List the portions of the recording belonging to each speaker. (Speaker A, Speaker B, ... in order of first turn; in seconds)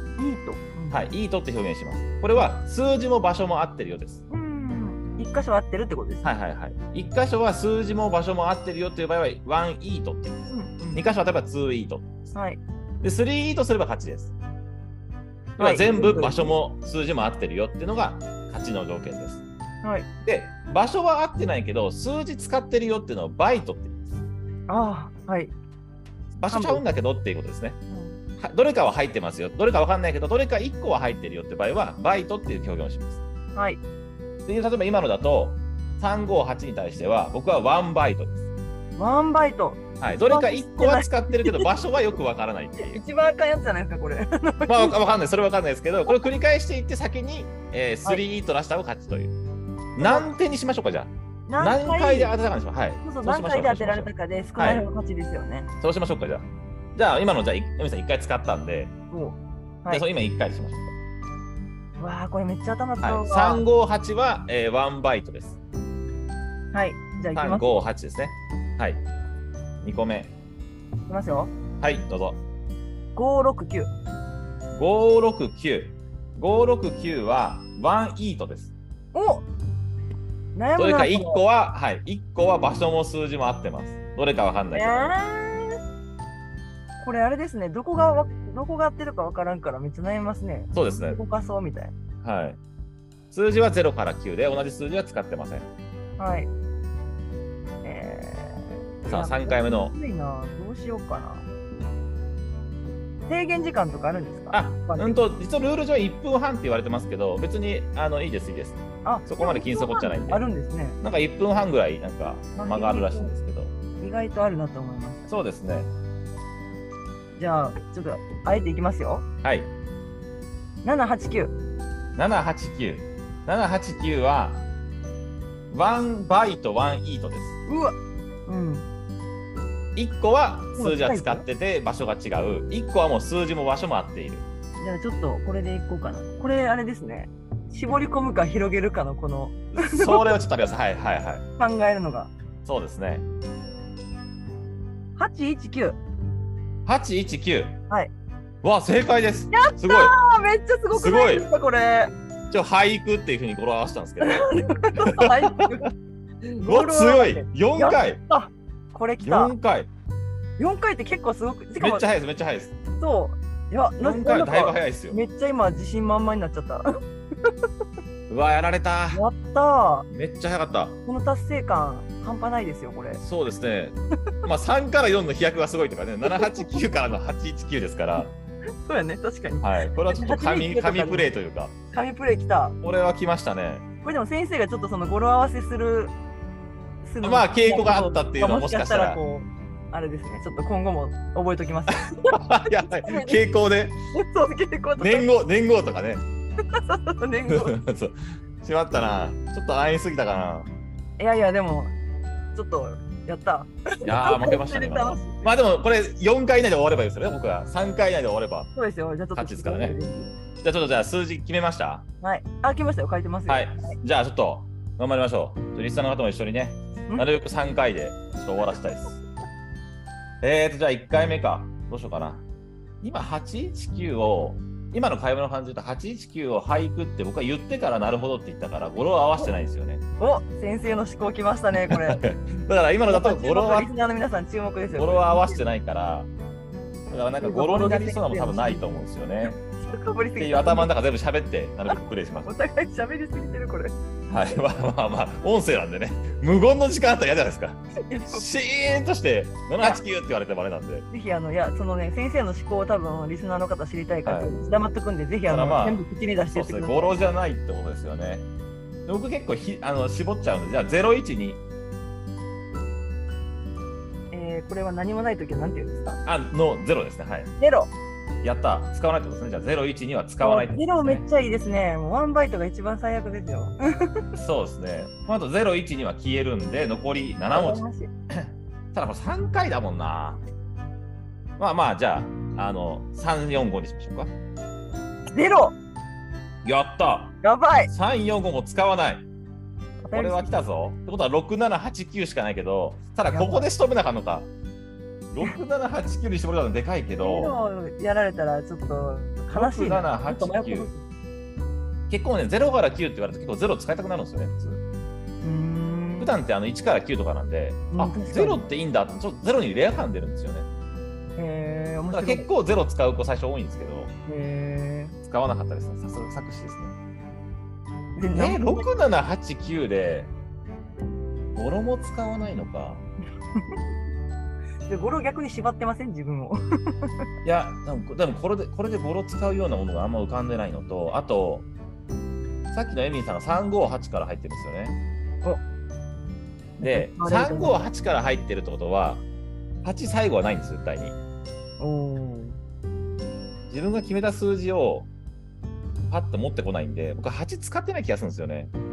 Speaker A: 0.2-1.1, 4.3-6.2, 10.5-11.1, 12.3-12.6, 15.6-16.5, 19.8-20.1, 24.7-25.5, 26.5-26.9, 27.9-28.2, 33.5-33.8, 39.0-41.7, 42.8-45.0, 50.0-50.3, 51.5-52.3, 53.0-55.7, 59.1-60.0, 62.0-63.6, 66.7-67.8, 71.1-71.5, 73.2-73.9, 79.1-79.4, 80.5-81.4, 84.7-85.8, 87.0-91.9, 96.2-96.5, 97.8-101.5, 103.3-105.2, 109.0-111.0, 112.5-113.3, 114.0-115.3, 117.3-119.2, 120.8-121.5, 127.7-127.9, 128.5-128.9, 130.8-131.4, 134.8-140.4, 141.6-142.3, 145.2-146.0, 149.5-152.1, 154.2-155.9, 156.4-159.5, 160.6-162.1, 163.0-166.8, 169.1-170.1, 171.1-173.2, 176.2-176.7, 178.8-181.3, 181.9-182.8, 184.0-186.1, 187.0-193.4, 194.1-195.3, 196.7-197.8, 201.2-201.9, 202.5-205.4, 208.7-210.3, 212.2-214.0, 230.2-232.2, 233.1-235.7, 237.4-239.0, 239.6-240.9, 241.9-244.6, 248.1-248.5, 251.1-257.1, 264.3-266.2, 267.6-267.9, 270.4-274.2, 277.5-278.1, 285.3-285.8, 287.4-287.9, 290.0-290.6, 293.3-293.7, 297.2-301.0, 305.4-306.3, 307.9-308.6, 311.4-312.5, 314.3-315.1, 318.1-318.9, 324.9-327.1, 336.8-337.8, 341.8-342.6
Speaker B: 0.9-4.2, 6.2-10.4, 10.9-12.1, 13.0-14.3, 15.6-19.4, 20.2-24.0, 26.3-27.8, 28.4-33.2, 34.5-38.4, 40.0-43.0, 44.6-49.3, 49.9-54.9, 55.8-58.9, 59.9-60.9, 63.0-65.6, 67.3-69.0, 69.8-70.3, 71.8-72.4, 74.7-78.7, 80.8-85.1, 90.7-91.2, 92.2-92.6, 93.3-95.7, 99.1-99.9, 104.5-110.4, 111.0-113.7, 115.3-115.9, 119.4-119.7, 122.2-124.6, 125.7-127.5, 129.9-134.4, 139.7-141.4, 142.6-143.2, 146.8-147.8, 148.6-150.1, 150.9-151.5, 152.5-154.5, 155.0-155.7, 156.6-158.2, 159.2-159.9, 161.8-162.7, 164.0-165.2, 168.3-169.2, 170.1-171.0, 173.2-178.3, 179.6-181.8, 182.8-183.8, 187.2-189.2, 192.3-194.0, 195.0-196.2, 197.5-200.7, 204.0-208.7, 209.3-210.0, 210.6-212.0, 213.5-219.2, 220.4-222.4, 223.0-230.0, 231.8-233.9, 234.9-236.3, 237.1-239.6, 240.4-242.5, 244.3-251.1, 254.2-254.5, 255.5-258.5, 259.1-261.6, 266.2-267.5, 268.4-271.2, 274.3-280.4, 281.6-284.3, 286.6-287.4, 287.9-289.2, 290.1-294.5, 295.3-297.6, 299.5-300.9, 302.1-304.8, 306.2-310.7, 312.1-314.1, 315.2-316.9, 318.3-320.3, 321.5-323.0, 327.4-331.7, 332.7-335.0, 336.8-339.2, 339.8-341.1, 343.7-345.1, 346.1-348.7